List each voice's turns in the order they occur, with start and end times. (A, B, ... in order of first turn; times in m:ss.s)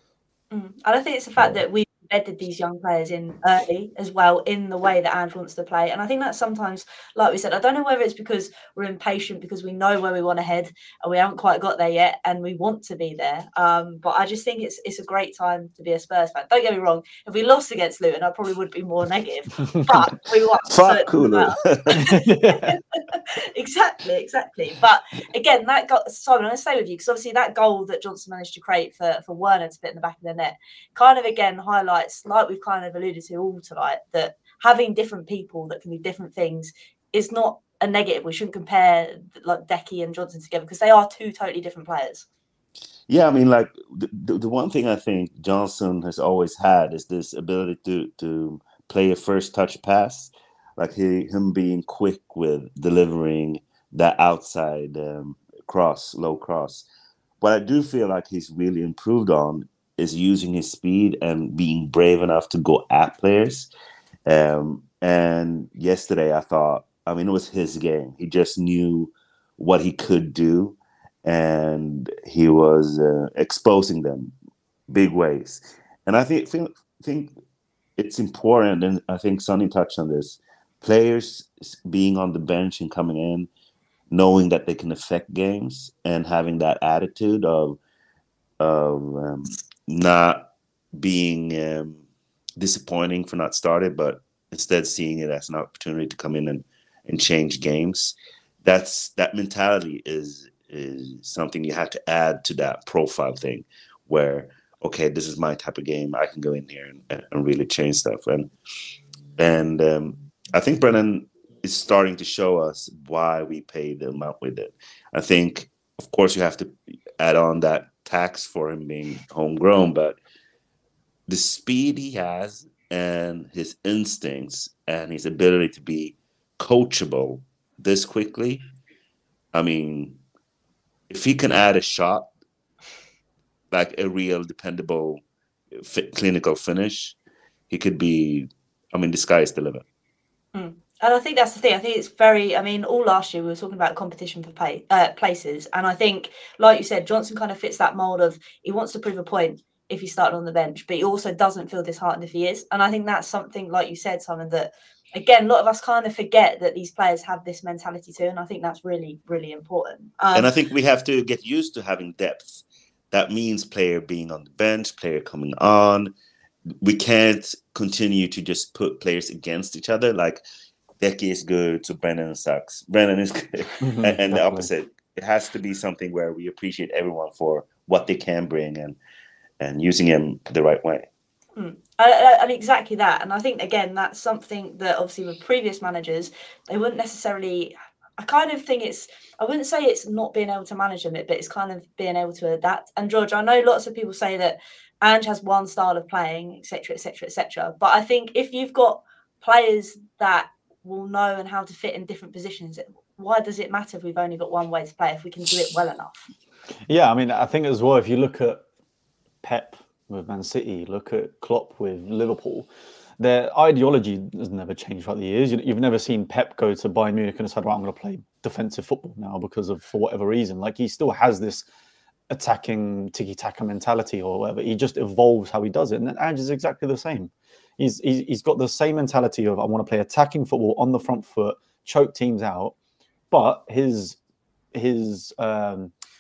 0:00.5-0:42.3 A
0:20.7-0:22.1 B
0:22.0-0:22.8 C
0:43.1-0:56.9 B
0:57.4-1:03.7 B
1:04.3-1:14.3 B
1:14.9-1:17.3 B
1:18.0-1:23.5 B
1:24.1-1:27.8 B
1:28.6-1:32.0 B
1:32.6-1:48.5 B
1:49.4-2:00.2 B
2:01.3-2:08.6 B
2:09.5-2:10.2 B
2:11.1-2:12.3 B
2:13.7-2:15.2 B
2:15.8-2:17.2 B
2:17.7-2:19.8 B
2:20.5-2:40.5 A
2:40.4-2:46.1 B
2:46.8-2:50.4 B
2:51.0-2:59.0 B
2:53.8-2:54.7 C
2:59.6-3:01.1 B
3:01.6-3:26.3 A
3:26.9-3:28.6 C
3:29.4-3:41.7 C
3:42.3-3:52.8 C
3:53.3-3:54.2 C
3:54.7-3:55.9 C